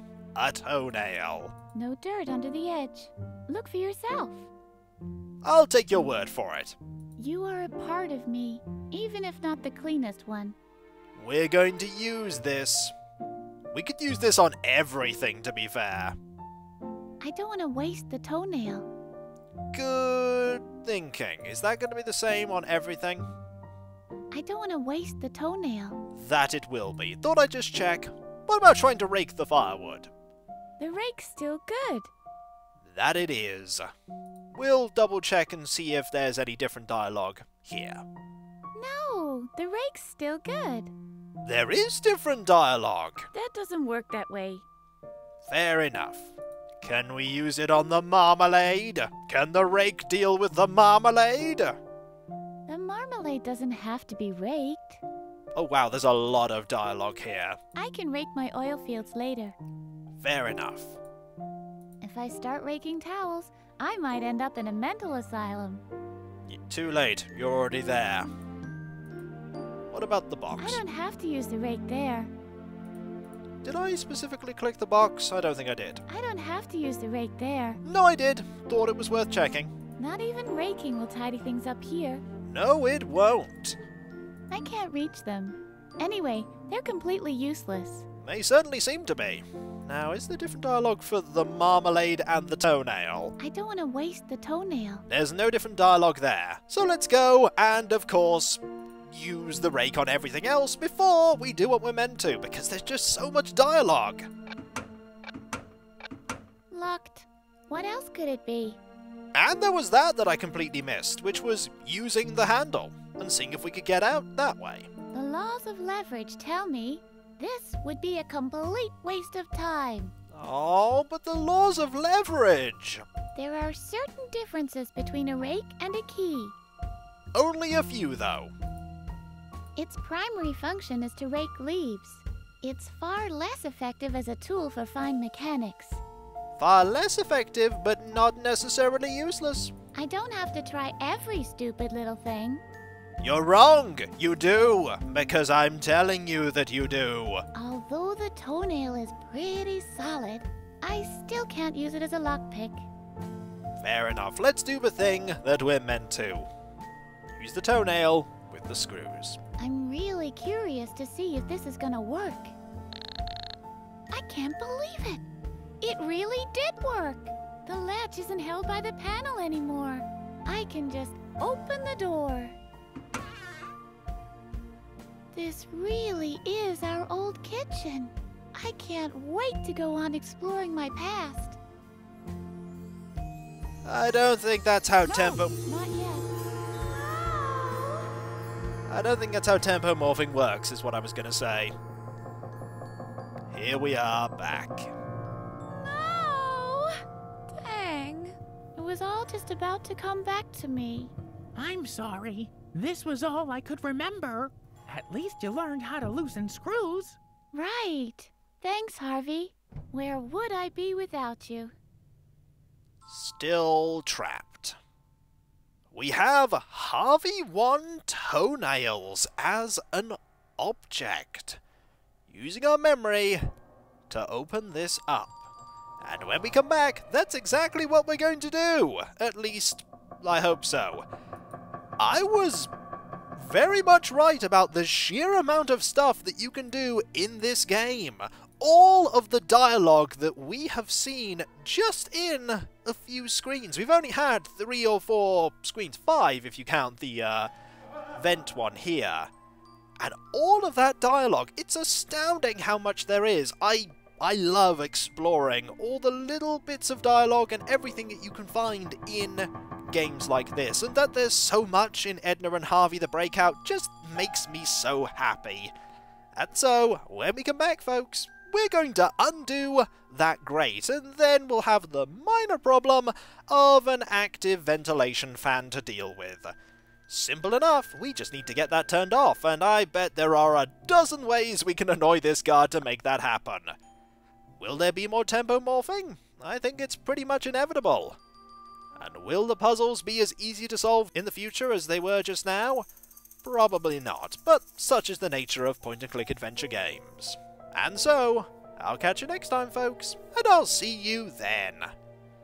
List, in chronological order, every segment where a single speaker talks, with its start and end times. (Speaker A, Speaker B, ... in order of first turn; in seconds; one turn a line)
Speaker A: 0.3-1.5
Speaker B: 1.7-4.5
Speaker A: 5.4-6.8
Speaker B: 7.2-10.6
Speaker A: 11.2-12.9
Speaker A: 13.7-16.2
Speaker B: 17.2-18.9
Speaker A: 19.7-23.3
Speaker B: 24.3-26.0
Speaker A: 26.1-30.1
Speaker B: 30.8-32.1
Speaker A: 32.9-33.9
Speaker A: 34.5-38.0
Speaker B: 38.7-40.9
Speaker A: 41.4-43.3
Speaker B: 43.3-44.6
Speaker A: 45.5-51.8
Speaker B: 52.7-55.0
Speaker A: 55.5-57.6
Speaker B: 57.8-59.5
Speaker A: 60.2-61.0
Speaker B: 62.0-65.8
Speaker A: 66.5-68.3
Speaker A: 69.9-70.8
Speaker B: 70.5-72.3
Speaker A: 73.6-76.0
Speaker B: 76.1-77.8
Speaker A: 77.8-79.7
Speaker B: 80.0-82.2
Speaker A: 82.5-83.8
Speaker B: 84.5-88.0
Speaker A: 88.2-93.3
Speaker B: 93.4-95.0
Speaker A: 95.1-104.3
Speaker B: 106.7-108.8
Speaker A: 109.3-114.9
Speaker B: 115.1-120.1
Speaker A: 120.3-123.0
Speaker B: 123.3-126.5
Speaker A: 127.3-128.5
Speaker B: 129.8-136.0
Speaker A: 136.6-139.7
Speaker B: 139.9-142.6
Speaker A: 143.2-147.4
Speaker B: 147.5-152.8
Speaker A: 153.8-156.5
Speaker A: 157.3-159.4
Speaker B: 159.6-162.5
Speaker B: 164.1-165.2
Speaker B: 165.8-172.6
Speaker B: 175.3-181.6
Speaker A: 183.8-185.6
Speaker B: 185.0-188.1
Speaker A: 188.9-191.7
Speaker A: 193.5-194.9
Speaker B: 195.8-201.1
Speaker C: 201.5-207.2
Speaker B: 207.5-211.7
Speaker A: 213.1-214.8
Speaker A: 215.9-221.6
Speaker A: 222.3-223.4
Speaker A: 224.1-225.5
Speaker A: 226.0-231.1
Speaker A: 232.0-232.7
Speaker A: 233.3-247.5
Speaker A: 248.1-249.3
Speaker A: 250.0-265.7
Speaker A: 266.3-276.5
Speaker A: 277.1-283.7
Speaker A: 284.6-288.2
Speaker A: 289.0-292.9
Speaker A: 293.4-301.9